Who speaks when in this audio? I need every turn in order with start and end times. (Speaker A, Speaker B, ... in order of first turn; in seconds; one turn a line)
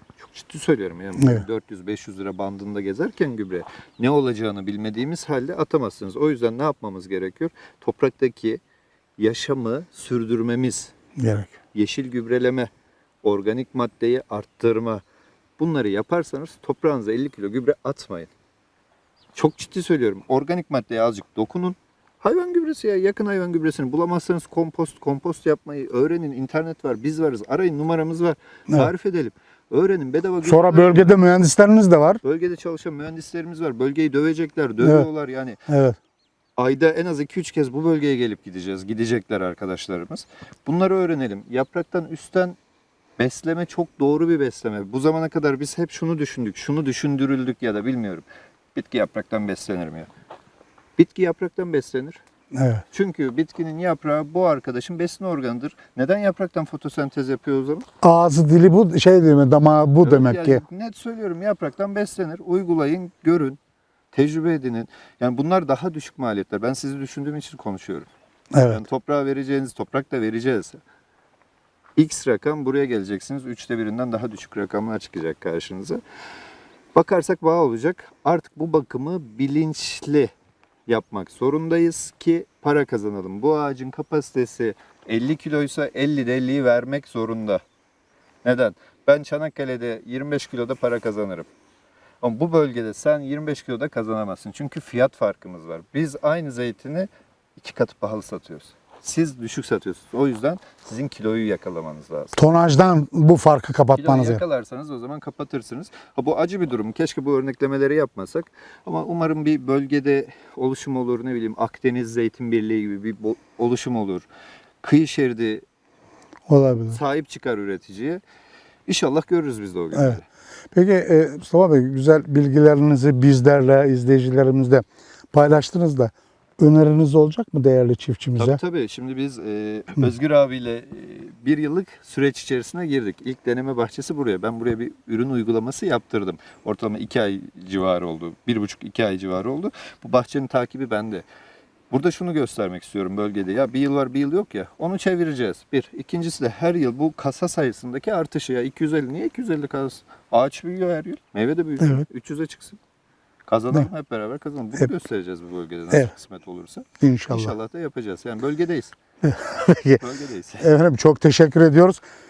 Speaker A: 0.2-8.6
Speaker B: 1.2-1.4
Speaker A: 9.2-10.9
Speaker B: 11.2-11.5
Speaker A: 11.7-12.7
Speaker A: 13.2-15.0
Speaker A: 15.6-18.3
Speaker A: 19.3-31.2
Speaker B: 30.4-32.2
Speaker A: 32.2-35.6
Speaker B: 34.8-35.1
Speaker B: 35.7-36.0
Speaker A: 36.6-42.6
Speaker A: 43.2-50.1
Speaker A: 51.0-52.2
Speaker B: 52.5-52.8
Speaker A: 52.9-57.9
Speaker B: 58.0-60.6
Speaker A: 60.0-63.6
Speaker A: 64.1-68.1
Speaker B: 68.5-68.8
Speaker A: 68.7-70.8
Speaker A: 72.0-76.0
Speaker A: 76.9-80.3
Speaker A: 80.9-87.6
Speaker A: 88.4-91.5
Speaker A: 92.2-102.4
Speaker B: 102.3-104.4
Speaker A: 103.9-114.3
Speaker A: 114.8-115.6
Speaker B: 116.5-117.0
Speaker A: 116.9-118.2
Speaker A: 118.8-120.2
Speaker B: 119.9-120.2
Speaker B: 120.7-128.6
Speaker A: 128.3-141.2
Speaker A: 141.9-152.8
Speaker B: 151.8-152.1
Speaker A: 153.5-158.9
Speaker B: 157.0-157.5
Speaker B: 159.2-160.0
Speaker A: 160.0-160.7
Speaker B: 160.6-162.0